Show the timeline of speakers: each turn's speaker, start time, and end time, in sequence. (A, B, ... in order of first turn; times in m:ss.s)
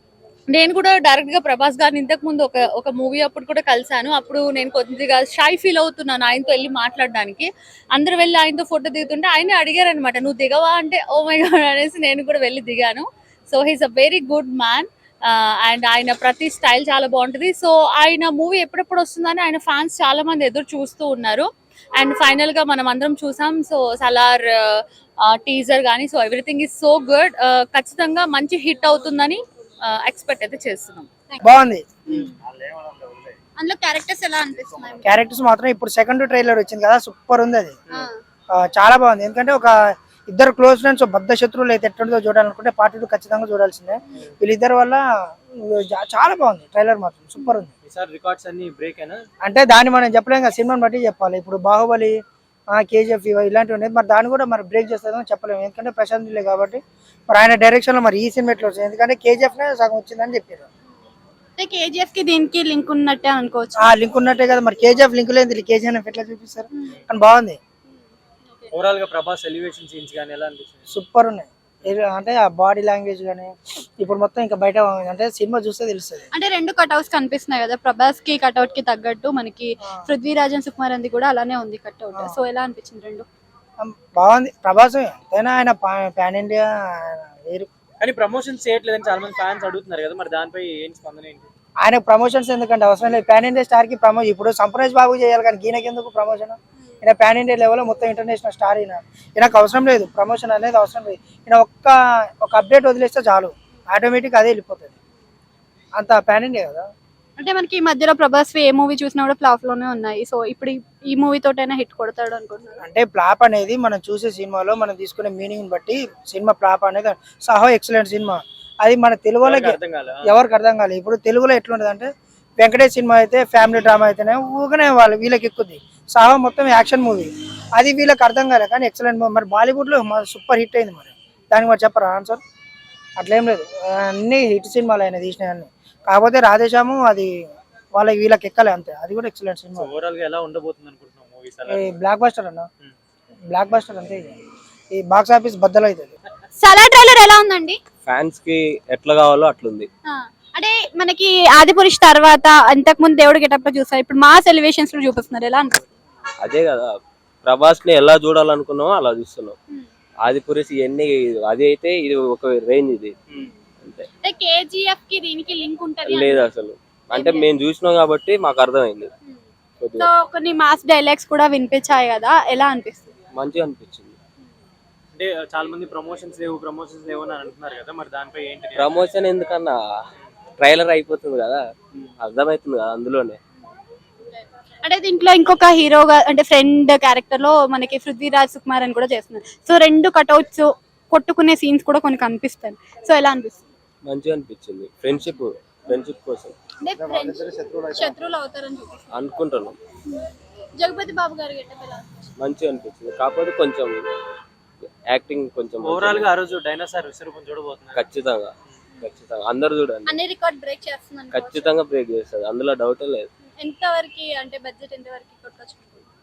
0:00.5-0:31.1 A
0:31.4-0:32.1 B
0:32.1-0:32.4 C
0:33.6-0:35.2 C
0:35.0-0:37.8 B
0:38.5-0:47.7 B
0:47.4-0:47.6 C
0:47.9-0:49.2 D
0:49.4-0:52.2 B
0:52.7-1:00.7 B
1:01.6-1:03.9 C
1:03.8-1:07.6 B
1:07.9-1:08.7 C
1:08.7-1:10.8 D
1:10.9-1:16.3 B
1:16.3-1:23.3 C
1:23.8-1:27.7 B
1:28.0-1:31.5 D
1:31.8-1:44.9 B
1:46.0-1:46.9 B
1:47.4-1:52.8 C
1:52.8-2:12.4 B
1:59.4-2:00.3 D
2:13.2-2:17.3 B
2:18.0-2:19.9 B
2:19.8-2:22.0 D
2:21.7-2:22.7 B
2:23.5-2:24.4 B
2:24.9-2:26.2 B
2:26.6-2:27.8 C
2:28.1-2:29.9 E
2:30.1-2:35.9 C
2:36.4-2:36.9 E
2:37.4-2:39.6 E
2:40.2-2:43.2 E
2:44.2-2:46.5 C
2:46.1-2:49.1 E
2:47.1-2:47.5 C
2:49.8-2:50.1 E
2:50.0-2:53.1 C
2:53.3-2:54.2 E
2:55.2-2:59.0 D
2:58.8-2:59.8 E
3:00.6-3:01.6 E
3:02.2-3:03.4 E
3:04.3-3:13.7 C
3:14.0-3:16.6 E
3:16.8-3:19.1 C
3:19.1-3:19.8 E
3:20.8-3:22.3 C
3:22.4-3:24.0 E
3:24.9-3:26.3 E
3:25.8-3:28.0 D
3:28.0-3:28.5 E
3:29.0-3:29.2 C
3:29.0-3:30.1 E
3:30.0-3:31.8 C
3:31.3-3:33.3 E
3:33.6-3:36.1 C